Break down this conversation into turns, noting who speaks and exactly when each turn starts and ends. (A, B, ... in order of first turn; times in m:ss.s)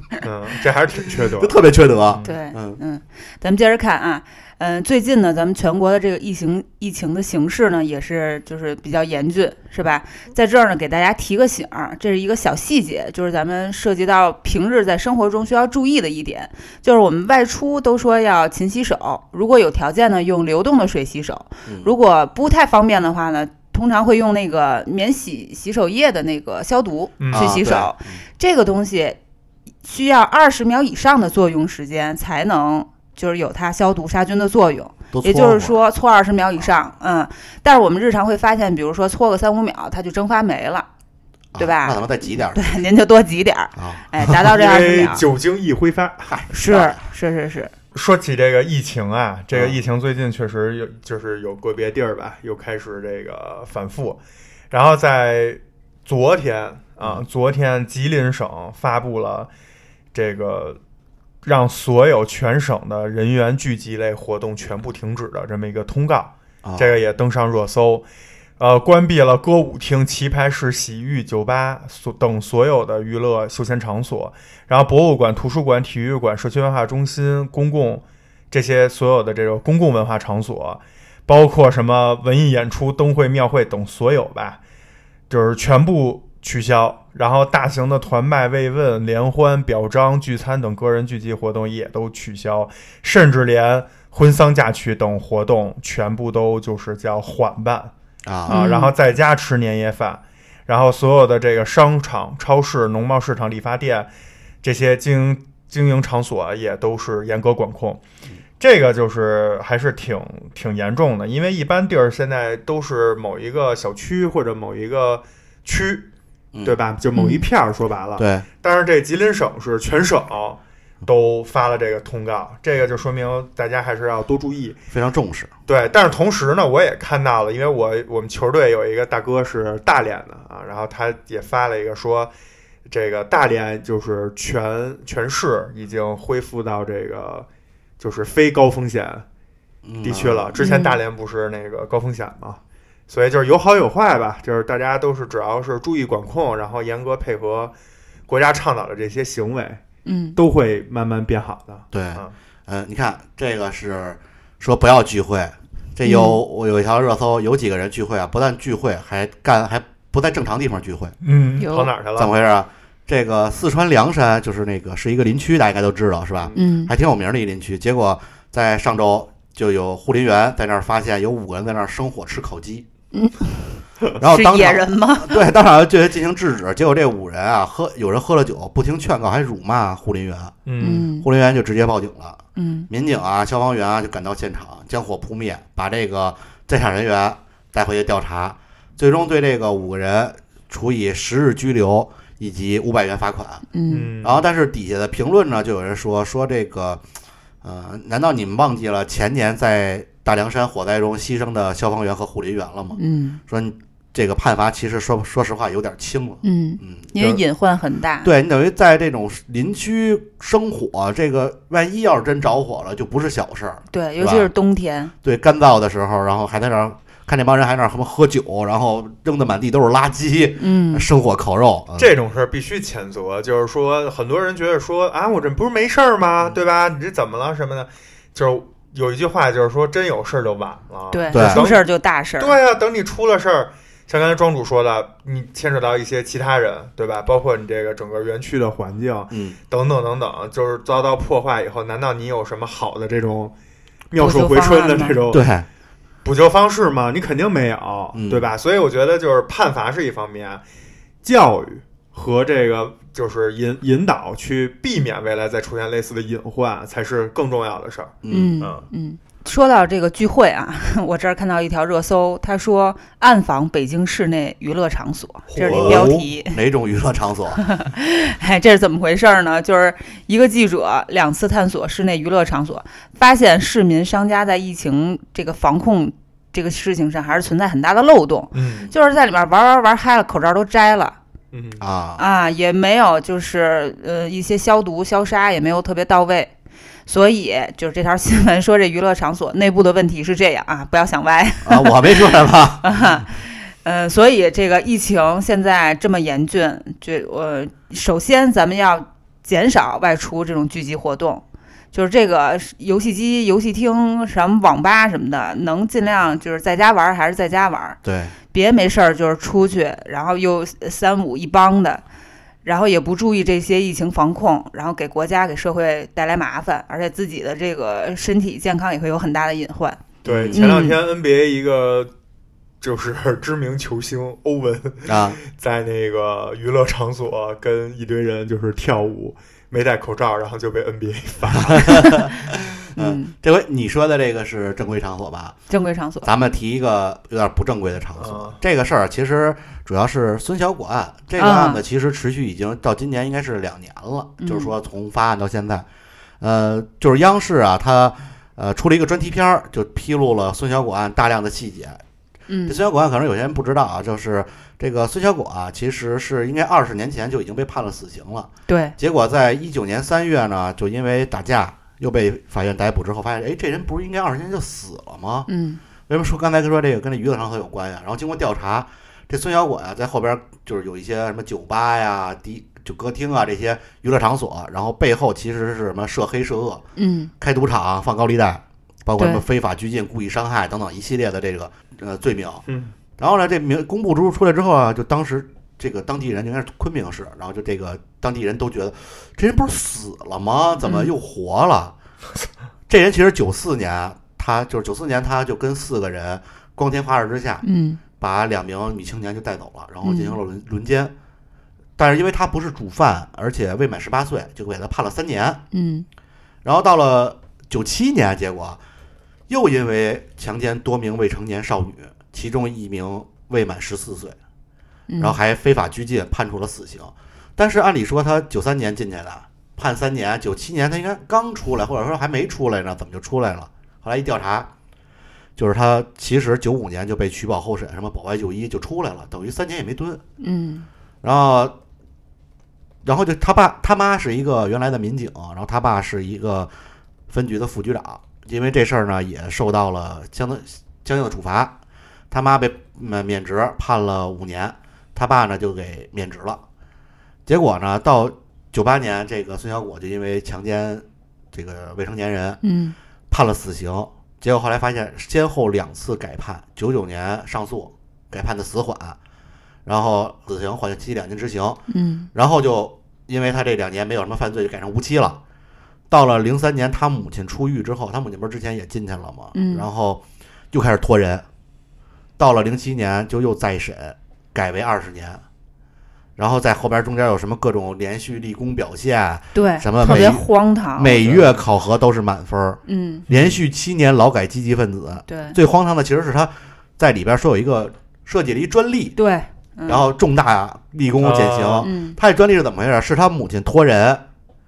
0:00.2-0:02.4 A
0:01.0-0:02.8 B
0:02.2-0:29.2 C
0:21.7-0:21.9 B
0:27.2-0:27.6 A
0:27.3-0:28.2 B
0:29.8-0:40.9 C
0:35.1-0:35.8 B
0:41.5-0:42.8 B
0:41.6-0:45.2 C
0:43.8-0:44.1 B
0:44.4-0:46.4 A
0:46.3-0:47.1 B
0:46.5-0:47.7 C
0:47.9-0:54.2 A
0:49.5-0:49.8 B
0:54.7-0:59.5 A
1:00.1-1:00.8 A
1:01.4-1:08.1 A
1:06.6-1:06.9 B
1:08.6-1:24.6 A
1:25.3-1:37.9 A
1:38.3-1:38.6 B
1:38.5-1:44.1 A
1:38.5-1:38.9 C
1:44.6-1:48.0 A
1:48.6-1:56.1 A
1:56.6-2:04.8 A
1:57.2-1:57.4 C
1:58.2-1:58.5 B
2:04.9-2:05.5 B
2:05.7-2:12.3 A
2:12.9-2:17.5 A
2:18.0-2:19.2 A
2:19.8-2:20.5 B
2:20.0-2:27.7 A
2:20.6-2:21.0 C
2:28.3-2:29.8 A
2:30.1-2:30.4 C
2:30.4-2:32.3 A
2:31.9-2:41.2 B
2:36.0-2:36.4 C
2:41.2-2:42.3 A
2:41.6-2:41.9 C
2:42.2-2:52.9 B
2:46.6-2:46.9 C
2:53.1-2:53.6 C
2:54.2-3:00.6 B
2:54.2-2:55.4 C
3:00.7-3:01.1 A
3:00.8-3:01.3 C
3:01.2-3:13.7 B
3:02.6-3:02.9 C
3:13.7-3:14.1 C
3:13.9-3:14.4 A
3:14.2-3:17.0 B
3:17.6-3:27.4 B
3:23.0-3:23.4 C
3:26.4-3:28.3 C
3:28.2-3:34.5 B
3:33.9-3:35.1 C
3:35.2-3:42.1 B
3:40.6-3:41.1 C
3:42.0-3:51.9 A
3:51.1-3:52.6 C
3:51.3-3:51.6 B
3:52.4-4:03.5 A
3:59.3-3:59.6 B
4:04.1-4:05.4 A
4:04.2-4:05.2 C
4:05.3-4:05.7 B
4:06.2-4:10.6 A
4:08.1-4:08.5 B
4:11.2-4:18.9 A
4:18.2-4:18.6 B
4:18.3-4:26.6 C
4:25.5-4:26.1 A
4:25.6-4:27.6 B
4:27.6-4:41.2 C
4:38.5-4:38.9 A
4:41.5-4:41.8 A
4:41.8-4:42.2 B
4:42.2-4:46.5 C
4:47.1-4:52.3 C
4:51.6-4:53.0 B
4:52.8-5:08.0 C
5:08.0-5:08.4 B
5:08.5-5:12.0 C
5:12.6-5:20.0 C
5:20.2-5:22.1 A
5:20.2-5:20.9 B
5:20.5-5:21.0 C
5:22.8-5:32.3 A
5:25.1-5:25.4 B
5:31.5-5:35.6 B
5:33.0-5:33.3 C
5:35.7-5:36.3 C
5:36.2-5:45.9 B
5:38.2-5:38.6 A
5:41.4-5:41.8 C
5:44.4-5:44.7 C
5:46.4-5:52.0 B
5:52.5-5:52.8 C
5:52.7-6:05.5 B
5:58.7-5:59.0 C
6:05.5-6:05.8 C
6:06.1-6:16.8 B
6:17.0-6:17.3 C
6:17.4-6:22.6 B
6:19.2-6:19.4 C
6:22.7-6:22.9 A
6:23.2-6:31.9 B
6:30.8-6:31.1 C
6:32.9-6:37.6 B
6:37.6-6:38.0 C
6:38.2-6:41.1 B
6:40.0-6:40.4 C
6:42.0-6:45.6 B
6:45.7-6:46.1 C
6:46.6-6:48.8 B
6:49.5-6:54.4 B
6:55.1-6:55.4 C
6:55.2-7:04.7 B
7:05.6-7:10.2 B
7:10.4-7:10.9 C
7:11.2-7:11.8 B
7:13.0-7:16.7 B
7:17.3-7:21.8 B
7:22.3-7:26.6 B
7:27.5-7:32.6 B
7:32.6-7:33.0 C
7:33.3-7:39.2 B
7:39.9-7:41.8 B
7:41.9-7:42.3 C
7:42.3-7:45.4 B
7:46.1-7:51.4 B
7:49.5-7:49.9 C
7:52.4-7:55.4 B
7:56.4-8:09.2 B
7:59.6-8:01.6 C
8:02.9-8:03.2 C
8:03.3-8:03.6 A
8:05.3-8:05.6 C
8:09.2-8:10.1 C
8:09.9-8:14.2 B
8:11.2-8:11.9 A
8:11.8-8:12.2 C